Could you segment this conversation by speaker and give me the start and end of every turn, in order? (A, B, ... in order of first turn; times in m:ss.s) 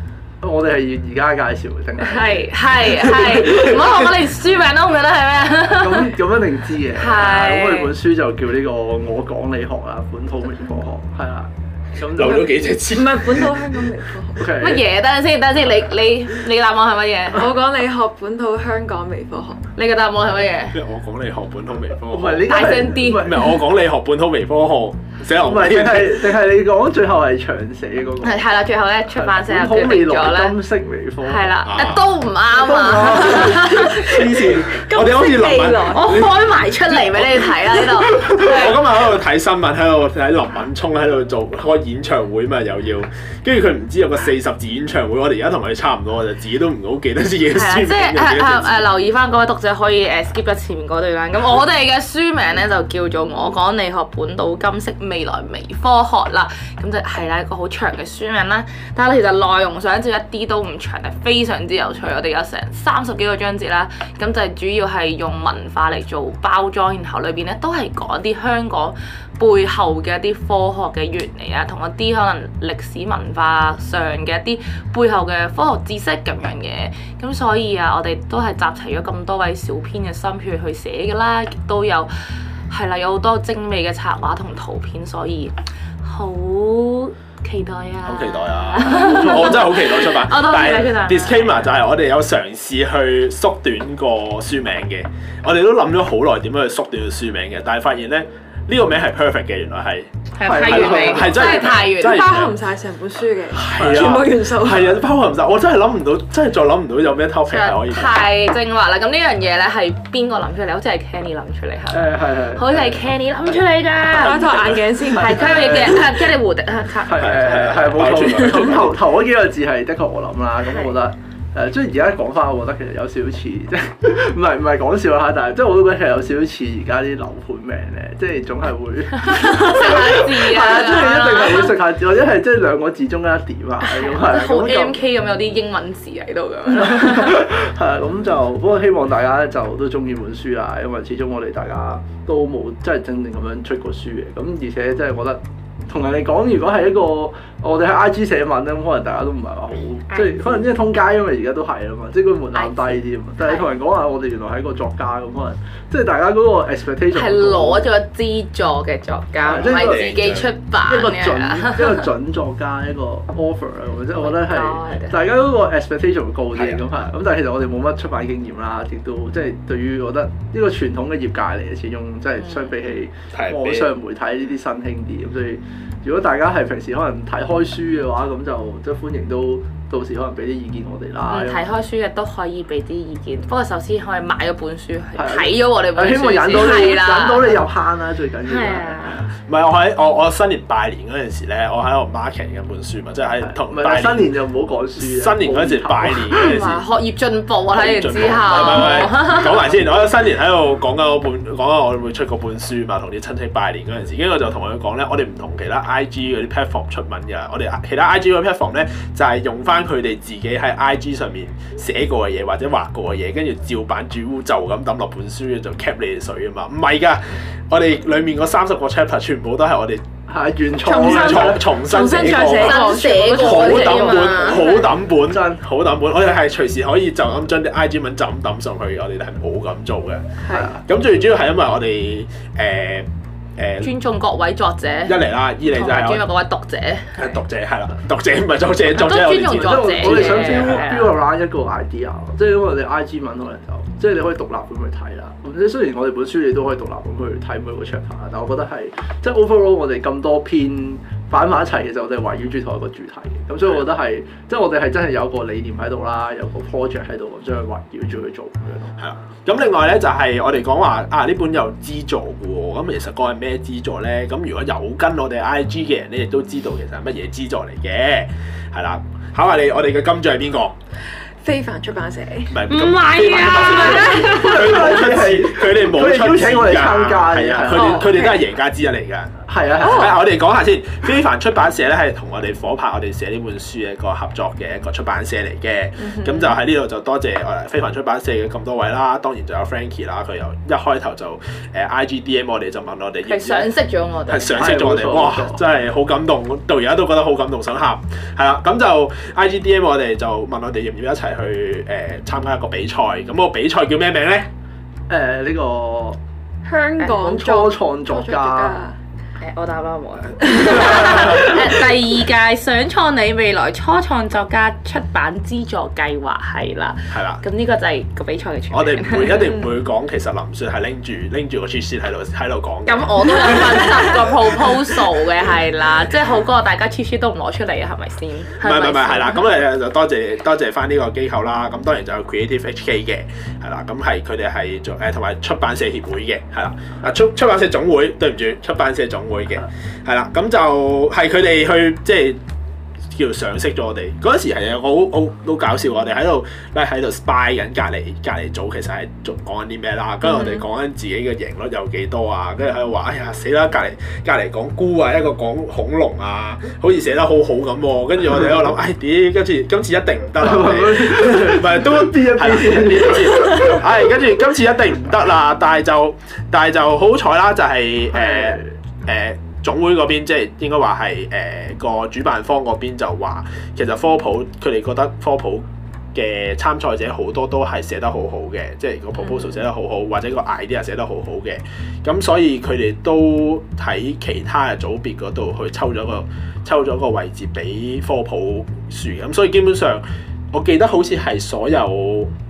0:00.4-0:04.0 A
0:02.0-0:06.1 B
0:05.7-0:12.5 A
0:06.9-0:08.0 B
0:12.0-0:13.8 C
0:12.2-0:14.4 D
0:14.4-0:14.8 A
0:14.5-0:17.5 B
0:17.3-0:19.6 D
0:19.8-0:20.8 B
0:20.7-0:22.6 C
0:22.1-0:23.5 A
0:22.4-0:23.3 B
0:23.2-0:26.3 C
0:25.4-0:28.5 A
0:28.2-0:30.6 B
0:29.1-0:31.5 A
0:31.2-0:34.3 B
0:31.7-0:32.0 C
0:32.5-0:34.8 A
0:34.0-0:36.1 D
0:34.8-0:36.0 C
0:35.8-0:38.8 B
0:36.9-0:48.8 C
0:47.5-1:22.1 B
1:22.7-1:31.7 B
1:28.0-1:42.5 C
1:40.3-1:42.2 B
1:40.4-1:41.5 A
1:41.2-1:45.0 D
1:43.5-1:48.1 C
1:47.5-1:54.6 B
1:51.9-1:53.0 A
1:54.1-1:56.0 D
1:54.1-1:55.1 C
1:55.1-1:58.7 B
1:55.2-1:56.0 A
1:57.1-2:15.0 A
1:57.3-1:58.9 C
2:09.3-2:11.7 B
2:13.8-2:17.4 B
2:16.8-2:37.9 A
2:30.1-2:30.7 B
2:32.5-2:33.7 B
2:37.1-2:42.0 B
2:39.4-2:40.2 A
2:39.5-2:40.5 C
2:40.8-3:01.6 A
2:44.1-2:45.2 B
2:46.6-2:46.8 C
2:53.3-2:53.9 C
3:01.3-3:07.6 B
3:05.2-3:09.3 A
3:08.4-3:09.2 B
3:09.3-3:14.3 C
3:13.4-3:16.6 A
3:15.0-3:16.8 C
3:16.3-3:19.7 B
3:17.7-3:40.0 C
3:40.3-3:41.8 A
3:40.8-3:44.8 D
3:41.0-3:53.9 C
3:42.4-3:44.7 B
3:45.2-3:45.6 A
3:50.5-3:50.7 D
3:50.5-3:50.8 A
3:53.8-3:57.4 B
3:55.1-3:56.2 C
3:57.2-4:00.8 C
3:58.9-4:01.2 B
3:59.5-4:18.9 A
4:19.0-4:30.7 C
4:31.4-4:32.6 D
4:32.5-4:53.7 C
4:32.7-4:34.7 B
4:33.5-4:34.4 D
4:33.6-4:38.1 A
4:37.8-4:38.4 D
4:39.5-4:40.1 A
4:39.7-4:40.2 D
4:53.2-4:54.8 B
4:54.3-5:04.5 C
4:54.6-4:55.6 A
5:05.1-5:06.2 A
5:06.6-5:09.0 D
5:07.1-5:08.8 A
5:09.4-5:19.5 B
5:17.1-5:17.4 C
5:18.7-5:24.8 C
5:22.9-5:29.4 B
5:28.6-5:42.4 C
5:43.1-6:32.3 C
5:50.3-5:50.6 D
6:00.4-6:03.8 A
6:08.2-6:08.7 A